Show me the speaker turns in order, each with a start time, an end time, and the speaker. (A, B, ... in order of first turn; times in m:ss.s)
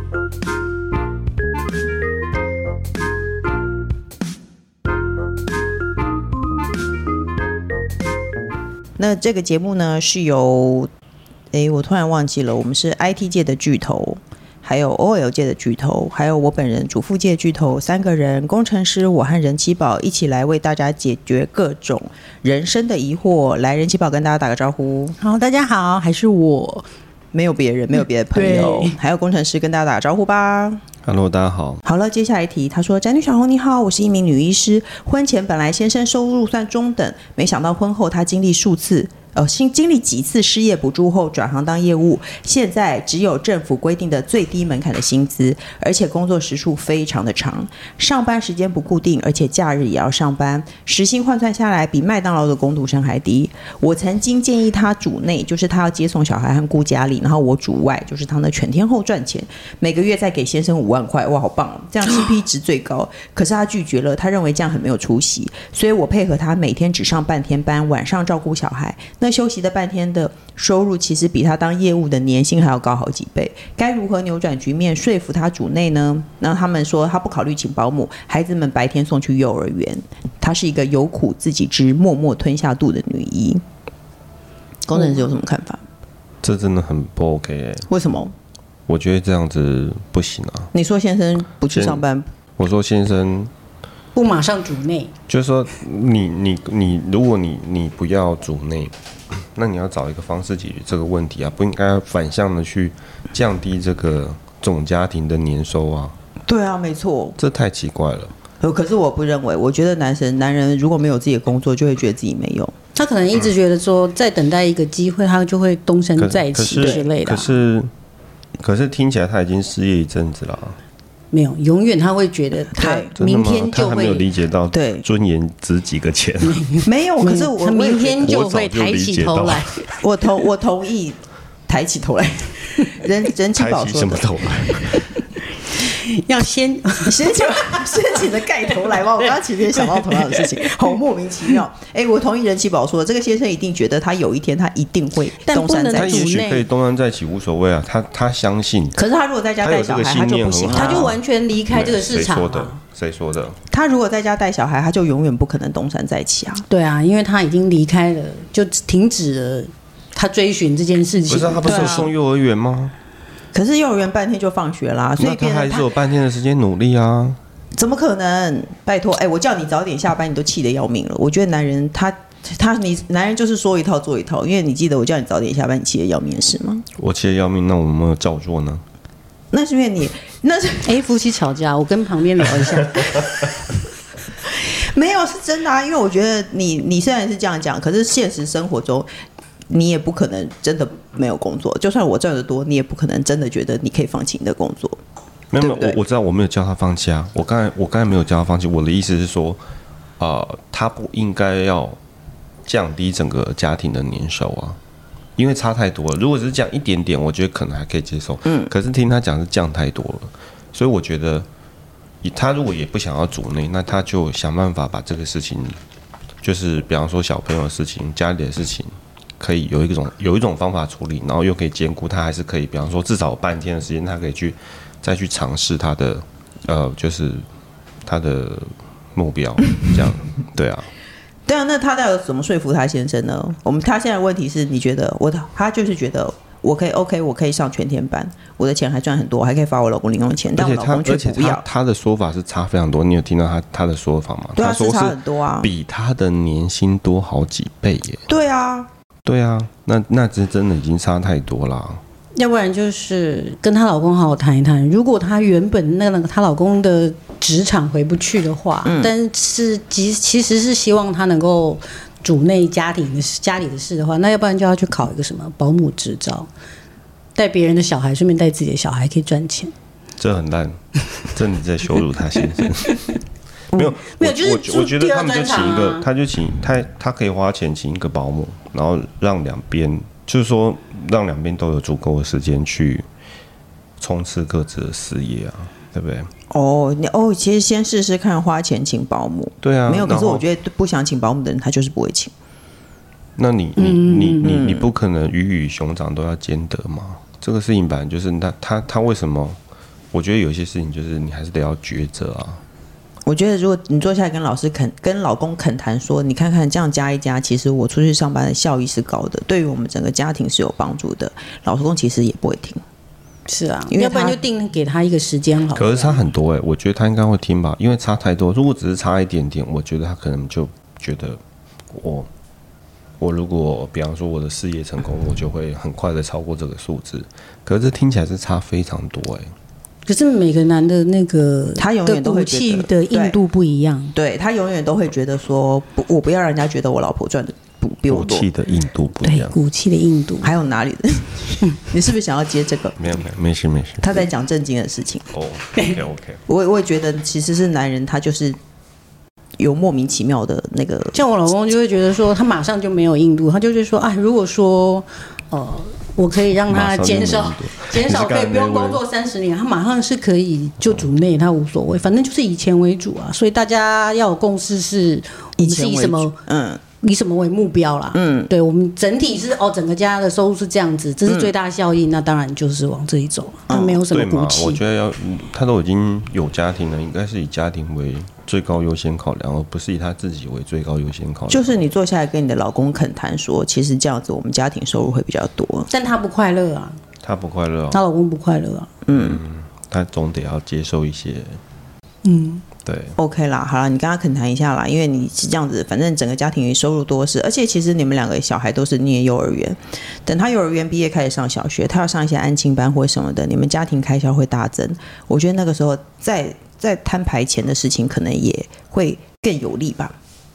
0:09.0-0:10.9 A
0:11.5-0:25.2 A
0:25.2-0:26.9 B
0:27.3-0:30.8 A
0:28.3-0:29.0 B
0:31.0-0:31.8 C
0:31.8-1:23.6 A
1:24.9-1:25.8 A
1:26.4-1:27.9 C
1:27.9-1:28.3 A
1:28.9-1:30.7 C
1:30.7-1:32.3 A
1:31.7-1:32.0 C
1:32.6-1:33.5 C
1:34.2-1:35.1 B
1:35.3-1:46.2 C
1:46.5-1:47.4 A
1:47.4-1:48.3 C
1:48.6-1:52.7 A
1:53.0-1:57.6 B
1:56.2-1:57.9 C
1:58.6-2:00.8 C
2:01.3-2:04.3 B
2:02.7-2:03.1 A
2:03.2-2:06.6 C
2:04.7-2:05.0 A
2:06.4-2:09.8 B
2:06.8-2:08.3 A
2:08.2-2:09.8 C
2:10.0-2:14.4 A
2:13.6-2:15.1 C
2:15.7-2:20.9 B
2:17.1-2:26.3 A
2:25.4-2:26.7 B
2:25.9-2:29.0 C
2:29.0-2:31.0 A
2:29.6-2:33.6 C
2:30.7-2:32.8 B
2:33.7-2:36.6 A
2:36.7-2:42.1 B
2:41.3-2:42.9 C
2:41.7-2:42.1 A
2:43.5-2:45.9 A
2:45.2-2:47.4 C
2:47.8-2:56.8 A
2:57.0-2:58.8 C
2:59.5-3:00.9 A
3:00.8-3:03.4 B
3:04.4-3:09.1 A
3:09.7-3:15.0 A
3:15.5-3:19.6 C
3:15.6-3:16.0 A
3:20.2-3:22.0 C
3:22.6-3:24.8 C
3:25.4-3:31.5 C
3:28.4-3:28.7 A
3:32.2-3:35.8 C
3:36.4-3:47.4 C
3:48.0-3:50.9 C
3:51.5-4:01.6 A
4:00.5-4:08.3 C
4:04.6-4:05.7 A
4:08.3-4:08.9 A
4:09.2-4:12.0 C
4:12.4-4:26.5 B
4:18.8-4:19.1 A
4:27.4-4:29.7 B
4:30.2-4:30.8 C
4:31.3-4:33.0 C
4:32.7-4:33.1 B
4:33.7-4:43.1 C
4:33.8-4:36.1 B
4:44.0-4:46.3 C
4:46.5-4:52.3 A
4:49.6-4:50.4 C
4:53.4-4:59.6 C
4:53.8-4:54.5 B
4:54.4-4:54.9 A
5:00.1-5:02.6 C
5:03.3-5:12.8 A
5:13.5-5:16.2 B
5:13.9-5:14.4 A
5:15.7-5:21.4 C
5:21.9-5:22.3 C
5:23.2-5:29.5 C
5:30.1-5:34.2 B
5:31.8-5:33.4 A
5:34.1-5:38.5 A
5:38.1-5:39.6 C
5:39.2-5:40.5 B
5:40.4-5:43.0 A
5:43.0-5:44.2 C
5:44.0-5:45.2 A
5:45.3-5:46.4 C
5:46.5-5:48.6 A
5:49.6-5:51.2 A
5:51.1-6:06.4 B
5:56.7-5:59.0 C
6:05.6-6:06.8 A
6:07.0-6:14.8 B
6:08.1-6:08.5 A
6:11.3-6:11.5 A
6:13.7-6:14.0 A
6:14.1-6:21.8 C
6:21.5-6:25.9 A
6:25.9-6:27.0 B
6:27.2-6:28.0 C
6:27.9-6:28.9 B
6:29.1-6:29.4 A
6:29.1-6:31.6 C
6:32.2-6:32.6 B
6:32.8-6:33.2 C
6:33.2-6:50.1 A